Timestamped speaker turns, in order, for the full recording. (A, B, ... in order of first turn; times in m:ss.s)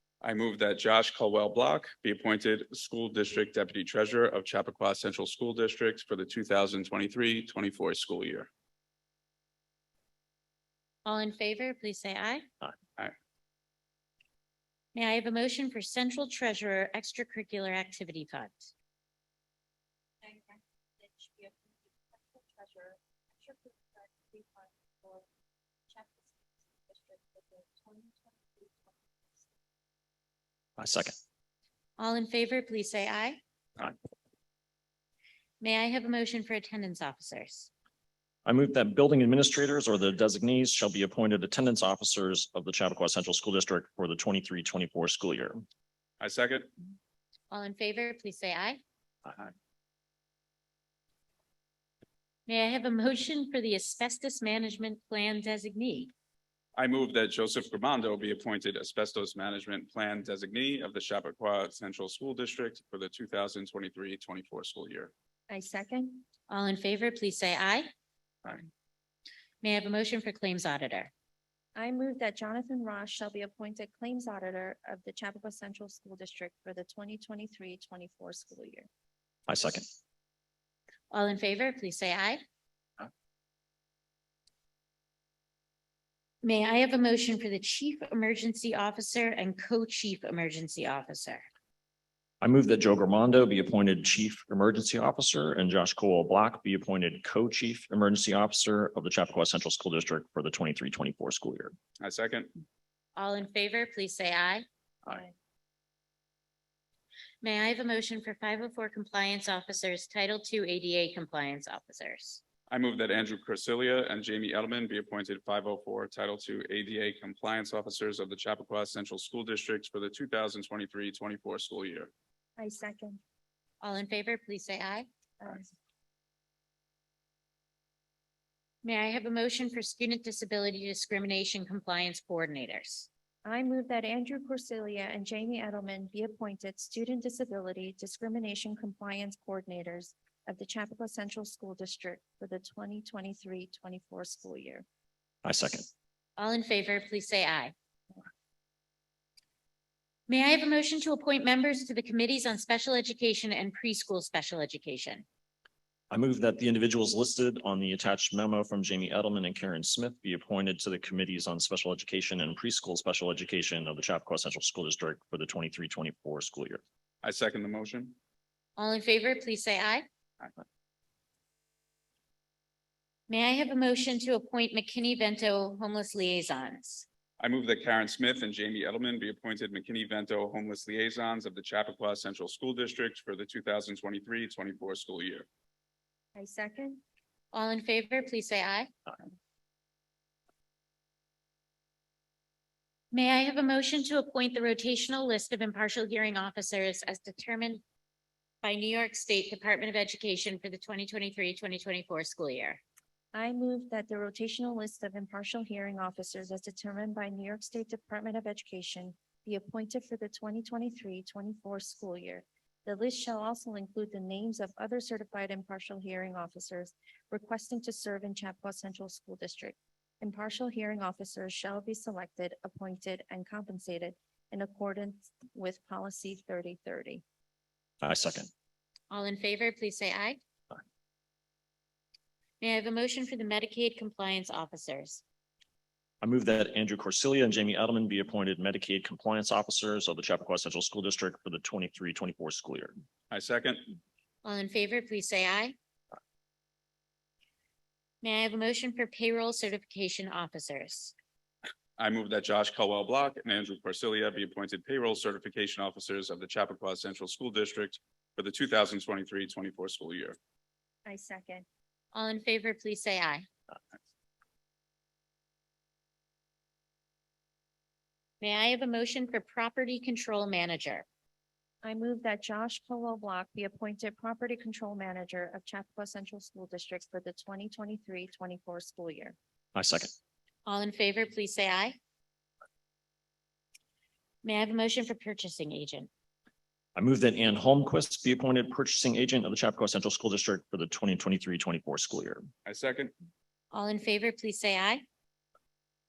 0:00.2-0:08.5 A
0:11.0-0:12.5 B
0:14.9-0:18.7 B
0:20.2-0:25.3 C
0:25.9-0:29.5 C
0:30.8-0:31.2 D
0:32.0-0:33.4 B
0:35.6-0:37.7 B
0:38.4-0:45.6 D
0:46.2-0:46.7 A
0:47.5-0:48.8 B
0:52.5-0:56.1 B
0:56.8-1:05.1 A
1:05.5-1:06.2 C
1:06.5-1:07.9 B
1:09.6-1:11.1 B
1:11.8-1:18.9 C
1:19.5-1:19.9 D
1:21.1-1:22.4 B
1:26.4-1:31.5 B
1:32.4-1:41.7 D
1:42.0-1:42.5 A
1:43.2-1:44.7 B
1:47.4-1:52.4 B
1:52.7-2:02.1 A
2:02.6-2:03.2 C
2:03.8-2:05.1 B
2:05.4-2:05.7 C
2:08.8-2:13.1 B
2:13.4-2:24.8 C
2:25.4-2:25.9 D
2:26.4-2:27.7 B
2:30.3-2:35.2 B
2:36.1-2:46.8 D
2:47.2-2:48.2 A
2:48.8-2:50.1 B
2:53.3-2:57.1 B
2:57.4-3:05.5 A
3:06.4-3:07.0 C
3:07.5-3:08.9 B
3:13.1-3:17.8 B
3:18.6-3:22.8 B
3:23.3-3:47.2 C
3:48.0-3:48.5 D
3:49.1-3:50.4 B
3:52.6-3:55.2 B
3:56.2-4:02.9 D
4:03.3-4:03.9 A
4:04.4-4:05.8 B
4:08.2-4:11.1 B
4:12.0-4:20.4 A
4:21.1-4:21.7 C
4:22.1-4:23.5 B
4:28.4-4:31.1 B
4:31.8-4:39.4 C
4:39.8-4:40.1 D
4:40.7-4:42.0 B
4:44.4-4:46.1 B
4:47.0-4:52.5 D
4:52.6-4:53.1 A
4:53.7-4:55.0 B